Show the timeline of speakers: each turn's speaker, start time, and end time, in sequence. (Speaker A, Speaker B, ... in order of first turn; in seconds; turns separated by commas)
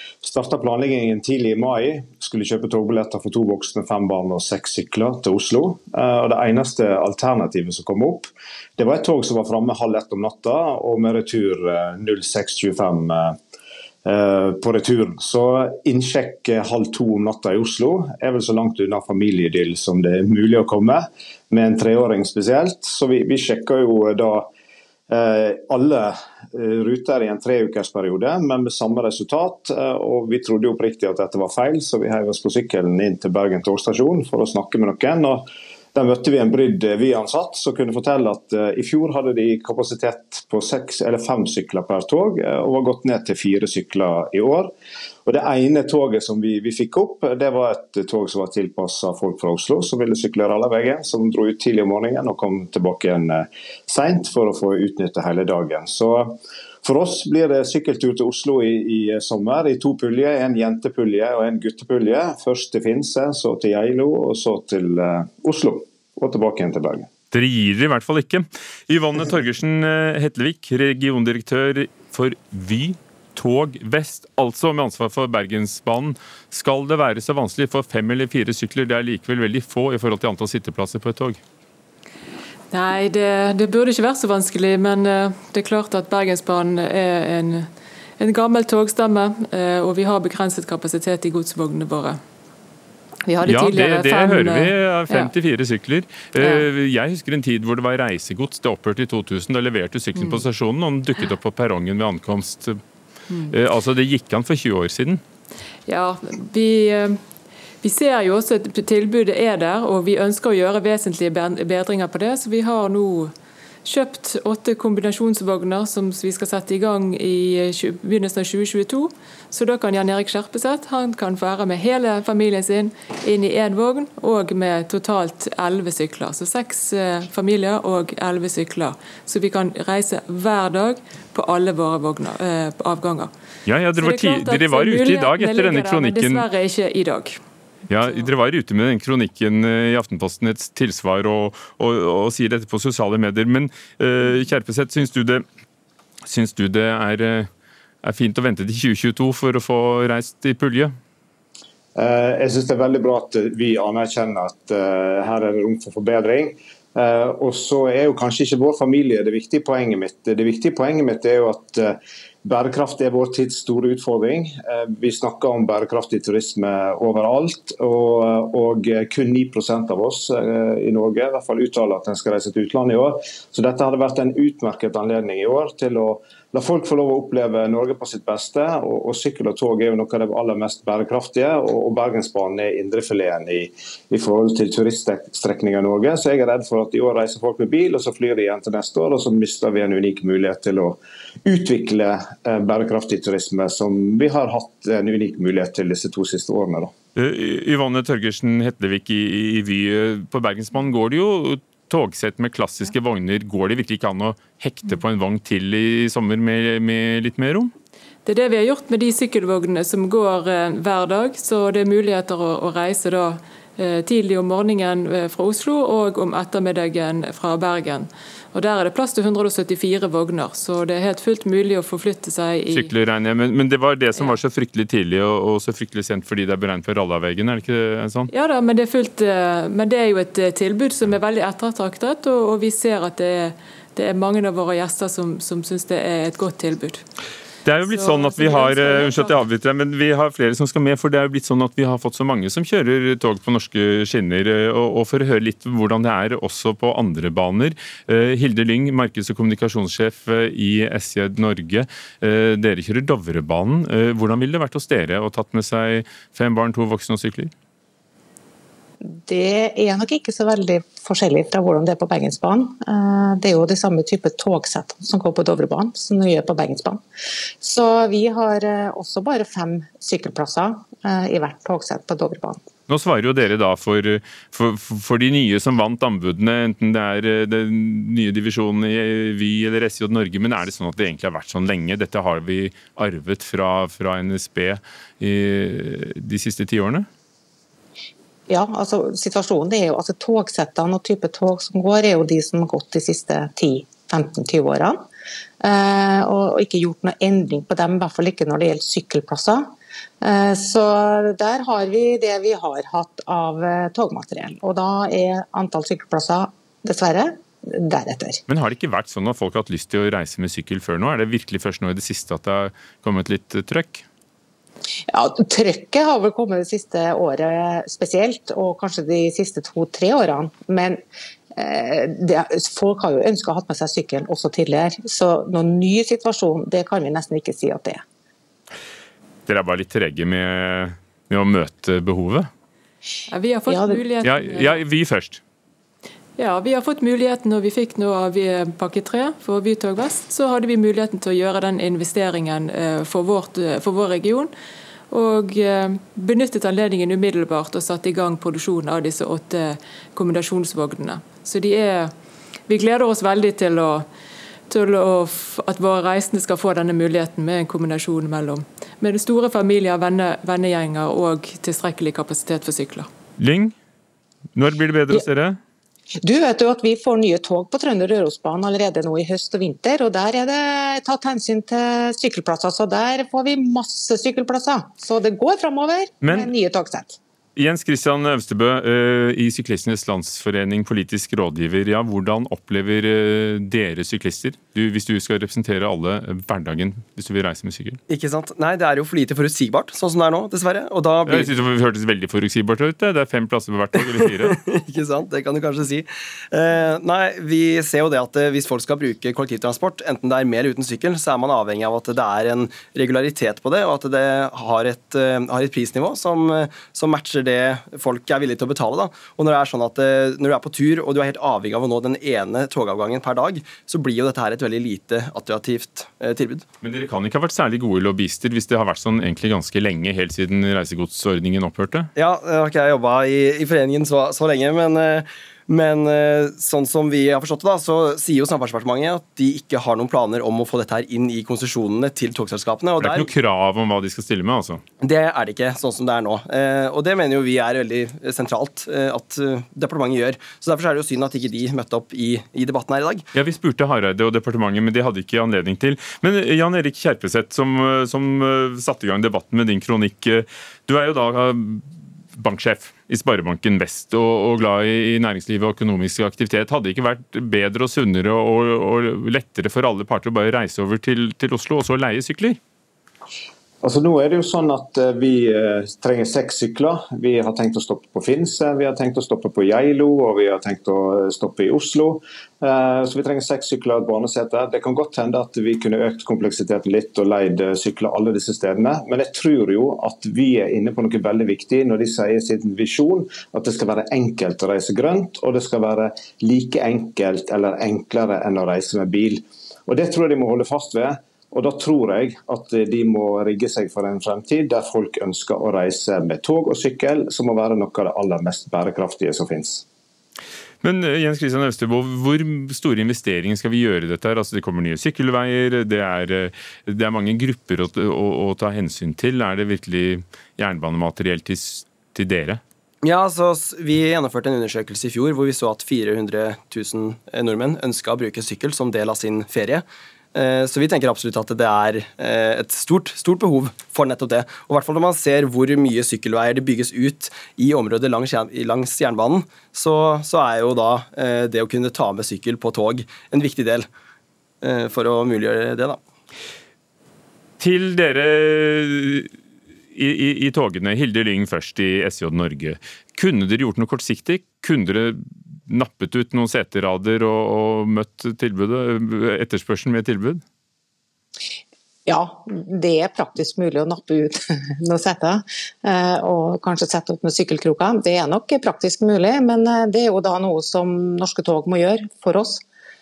Speaker A: 0.2-13.4, Speaker A: 14.1-24.5, Speaker A: 25.1-44.7, Speaker A: 45.3-67.1, Speaker B: 67.3-81.4, Speaker C: 82.7-92.2, Speaker C: 93.3-95.3, Speaker B: 93.4-102.8, Speaker C: 96.4-96.7, Speaker B: 103.5-105.2, Speaker C: 105.9-107.2, Speaker C: 107.8-113.3, Speaker C: 113.8-133.3, Speaker B: 133.7-136.4, Speaker C: 133.9-137.4, Speaker B: 137.9-145.4, Speaker B: 146.2-147.5, Speaker B: 148.0-150.9, Speaker A: 151.9-196.9, Speaker B: 197.2-207.7, Speaker C: 208.2-222.9, Speaker B: 222.7-228.3, Speaker C: 228.3-237.0, Speaker B: 237.6-257.5, Speaker C: 237.8-239.4, Speaker D: 259.0-267.0, Speaker D: 267.6-272.6, Speaker B: 272.9-287.1, Speaker D: 288.5-295.0, Speaker D: 295.6-308.4, Speaker B: 308.5-314.1, Speaker D: 315.1-321.0, Speaker D: 321.6-328.0, Speaker B: 329.5-332.5, Speaker C: 333.3-334.8, Speaker D: 333.7-334.1, Speaker B: 334.2-335.4, Speaker C: 336.4-344.5, Speaker C: 345.1-352.1, Speaker C: 352.7-354.1, Speaker C: 354.7-363.1, Speaker B: 363.4-363.7, Speaker B: 364.6-365.6, Speaker D: 366.2-377.2, Speaker B: 376.2-376.5, Speaker B: 377.6-388.0, Speaker E: 388.1-391.5, Speaker B: 391.3-394.6, Speaker E: 394.5-416.6, Speaker B: 416.8-422.1, Speaker E: 422.2-433.3, Speaker B: 433.0-434.8, Speaker E: 435.0-443.3, Speaker B: 443.3-462.6, Speaker A: 463.8-499.8, Speaker B: 500.8-512.6, Speaker E: 513.0-533.9, Speaker E: 534.6-536.0, Speaker B: 537.6-539.3, Speaker B: 539.9-550.4, Speaker D: 552.0-562.6